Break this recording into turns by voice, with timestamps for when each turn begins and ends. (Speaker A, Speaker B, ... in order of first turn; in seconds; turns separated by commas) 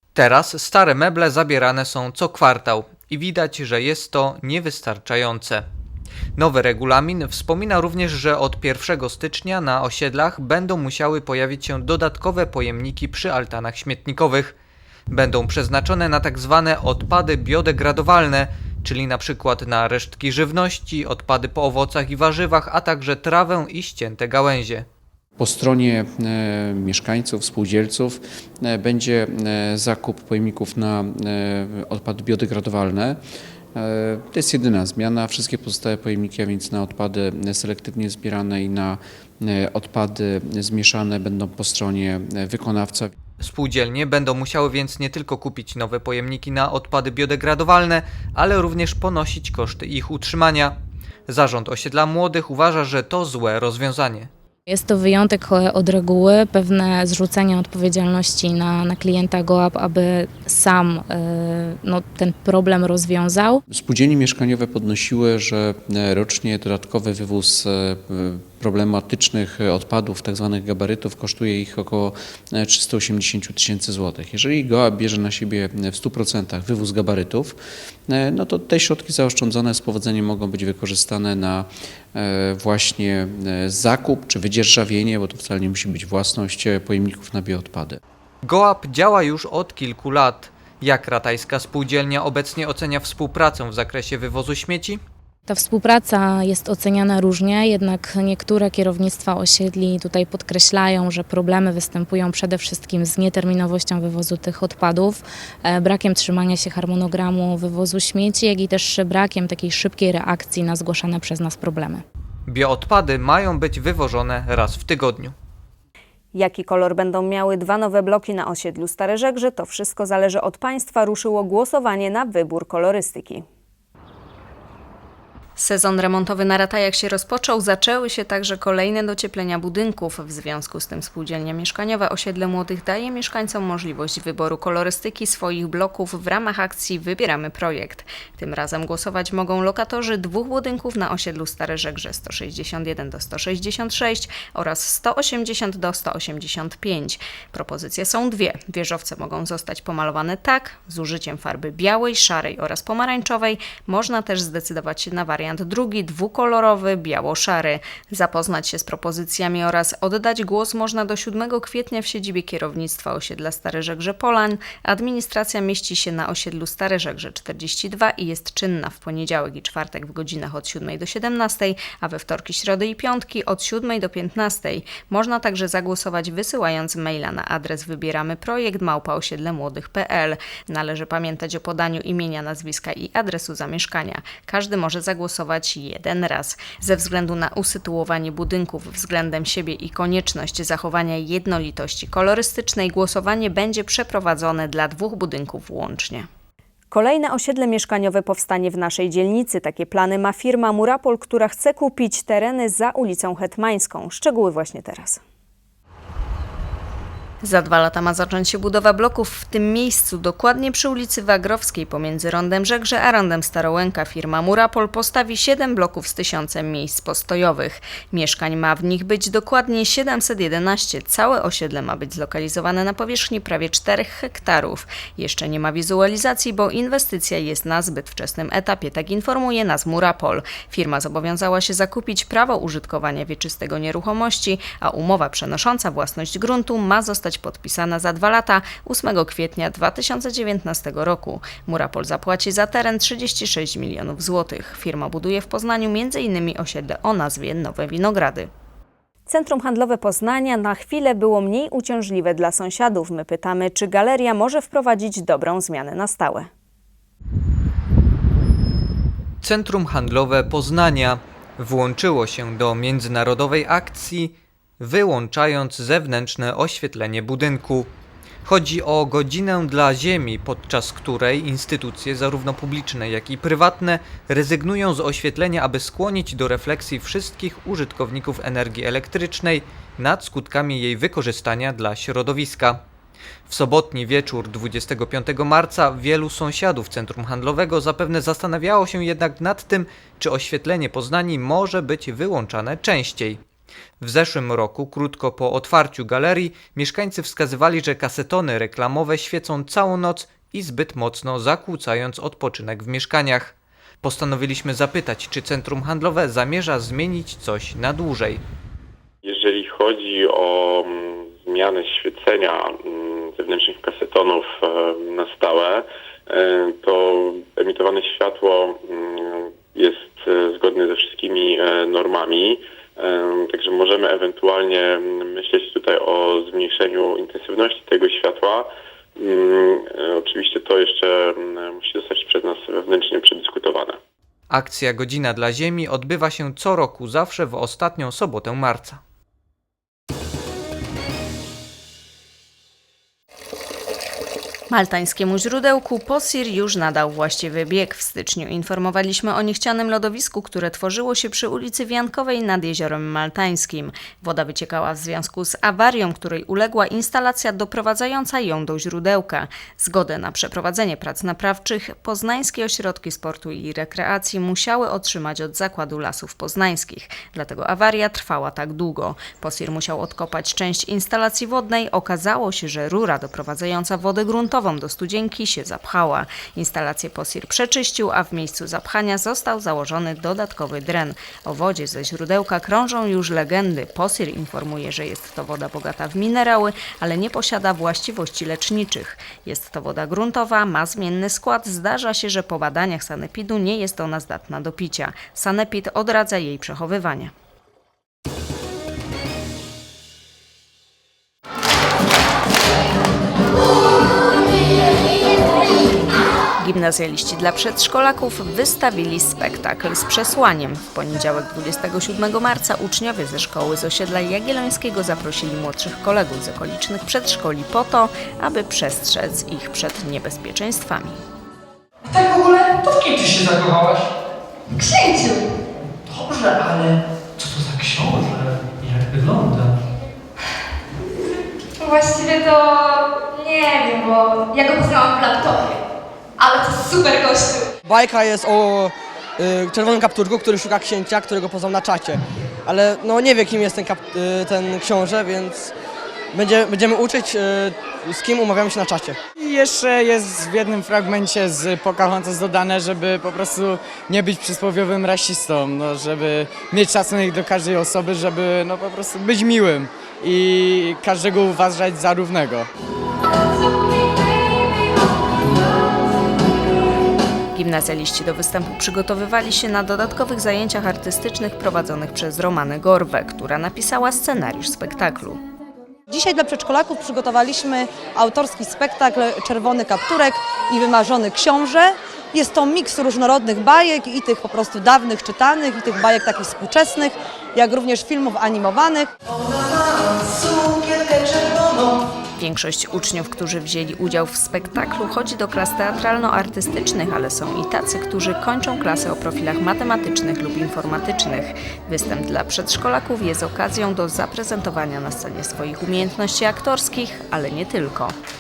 Speaker A: 0.1-5.6, Speaker A: 6.4-14.6, Speaker A: 15.1-24.9, Speaker B: 25.4-33.2, Speaker B: 33.7-43.1, Speaker A: 43.4-50.8, Speaker A: 51.3-54.3, Speaker C: 54.7-63.6, Speaker B: 63.7-88.0, Speaker A: 88.4-95.0, Speaker C: 95.5-112.0, Speaker A: 112.5-115.3, Speaker D: 116.3-123.4, Speaker D: 125.6-196.3, Speaker D: 196.9-205.2, Speaker D: 207.4-248.5, Speaker D: 249.3-256.5, Speaker A: 259.4-267.9, Speaker A: 268.4-282.8, Speaker A: 283.5-293.4, Speaker A: 294.0-308.4, Speaker E: 309.2-334.0, Speaker A: 334.5-339.0, Speaker D: 344.7-397.3, Speaker D: 406.6-421.2, Speaker F: 424.7-425.4, Speaker G: 426.1-429.7, Speaker F: 431.8-435.8, Speaker F: 436.4-437.7, Speaker H: 437.8-445.7, Speaker H: 446.3-449.2, Speaker I: 449.4-462.7, Speaker D: 467.5-475.4, Speaker J: 476.1-489.1, Speaker D: 492.4-508.1